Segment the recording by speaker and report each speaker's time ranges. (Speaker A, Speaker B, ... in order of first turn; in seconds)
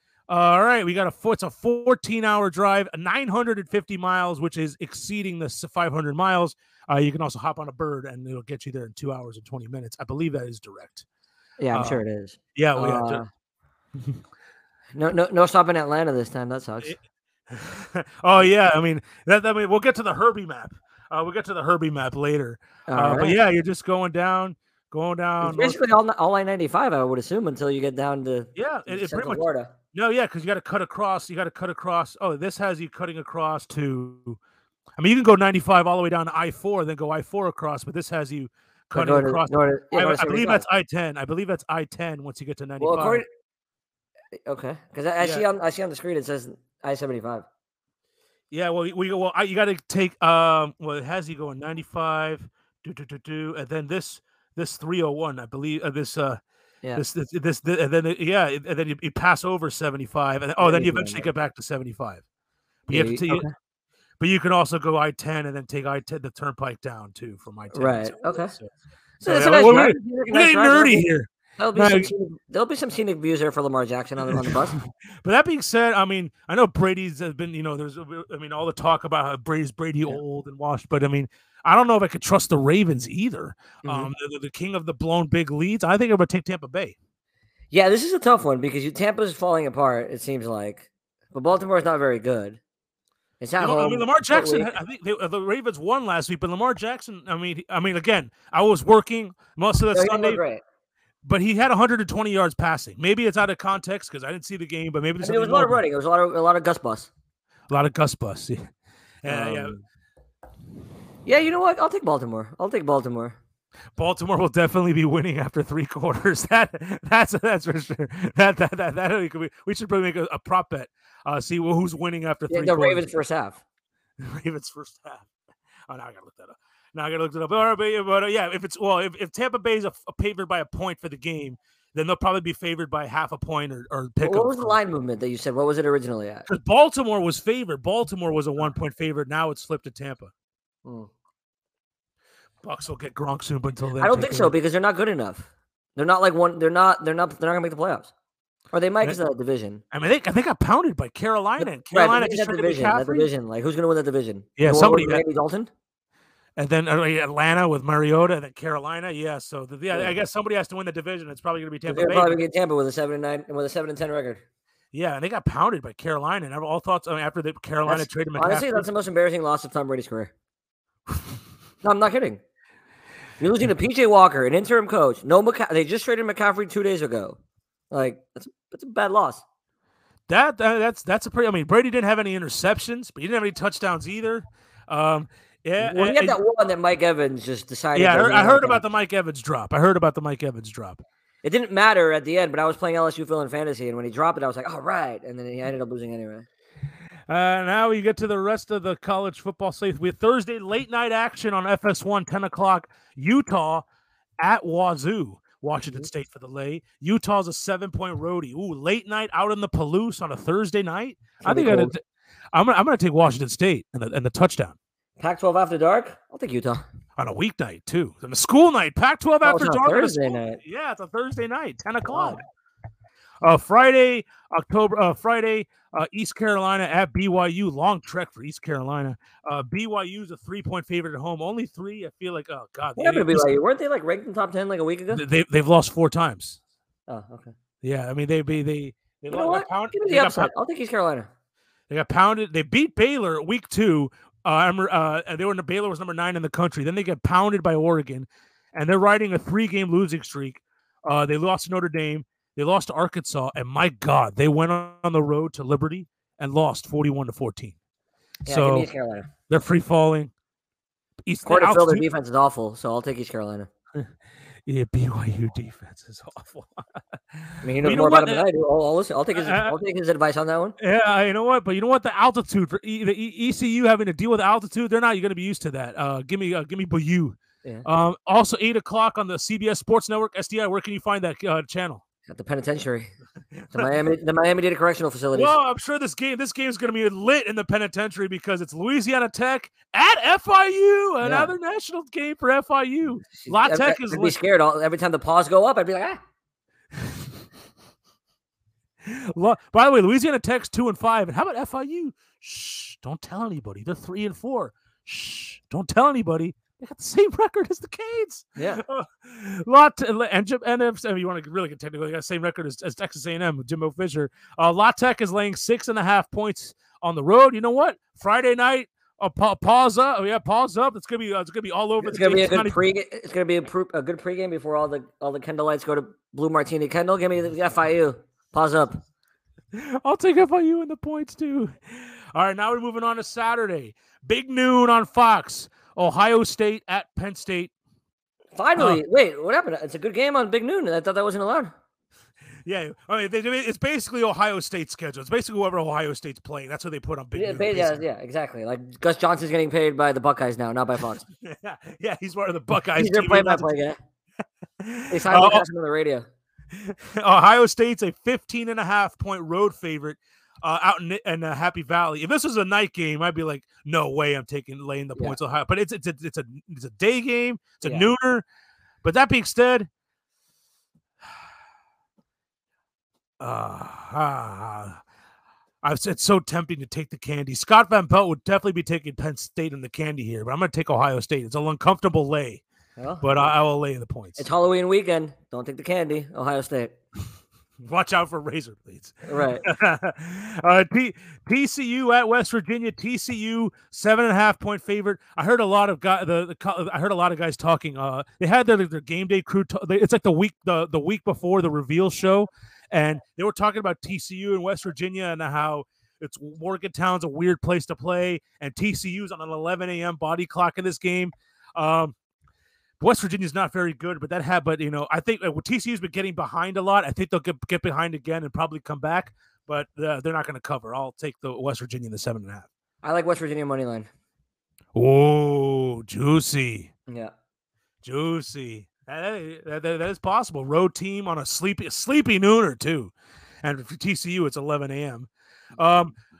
Speaker A: 0.3-11.1, 11.7-12.0, 12.6-13.2, 17.5-25.8, 28.6-34.4, 35.0-43.2, 45.2-45.5, 48.5-56.4, 57.0-62.2, 62.9-63.5, 64.2-68.7, 69.2-72.1, 74.3-87.0, 93.6-100.4, 101.2-105.8, 107.7-108.6, 109.2-109.8, 114.0-123.1, 124.2-125.3, 125.9-134.8, 136.5-140.3, 142.6-144.5, 149.9-153.3, 154.6-155.2, 156.6-162.4, 164.9-168.9, 180.3-186.4, 187.9-191.0, 197.3-203.9, 204.4-212.0, 212.5-214.8, 217.2-222.4, 223.4-233.5, 235.1-236.6, 237.8-240.5, 241.9-257.8, 258.5-258.9, 259.5-260.3, 261.3-262.1, 264.7-268.4, 269.3-269.8, 270.8-282.0, 283.5-283.9, 285.3-294.4, 299.0-322.8, 329.7-337.7, 338.8-339.0, 342.6-348.0, 351.4-353.7, 354.8-355.6, 356.7-368.4, 369.0-369.9, 373.4-375.0, 375.8-382.6, 383.2-384.5, 387.8-412.1, 413.0-422.7, 424.9-426.9, 428.0-436.1
Speaker B: 11.6-13.3, 14.9-17.0, 22.9-23.4, 25.4-29.7, 38.9-40.6, 42.8-43.3, 44.5-47.5, 60.6-61.3, 62.9-63.5, 67.7-68.5, 69.2-74.8, 83.8-84.1, 87.7-92.6, 93.4-94.7, 99.9-100.6, 105.2-107.1, 109.3-109.8, 111.3-113.4, 122.5-123.6, 134.2-136.5, 140.8-141.1, 144.0-148.1, 148.7-149.8, 151.6-155.7, 161.9-164.4, 167.9-170.3, 171.8-172.4, 173.4-177.4, 177.9-179.4, 185.8-188.8, 191.4-196.5, 211.4-211.9, 215.2-216.8, 219.4-220.6, 222.1-222.4, 233.0-235.2, 237.1-237.5, 239.3-241.3, 258.5-259.3, 261.4-263.7, 267.6-270.8, 282.3-283.1, 283.7-285.6, 291.2-291.5, 293.3-296.2, 308.6-308.8, 322.0-329.0, 338.6-341.7, 347.4-351.2, 353.0-354.0, 355.1-356.3, 367.8-368.1, 383.0-383.3, 384.4-386.9, 389.3-389.6, 423.0-424.1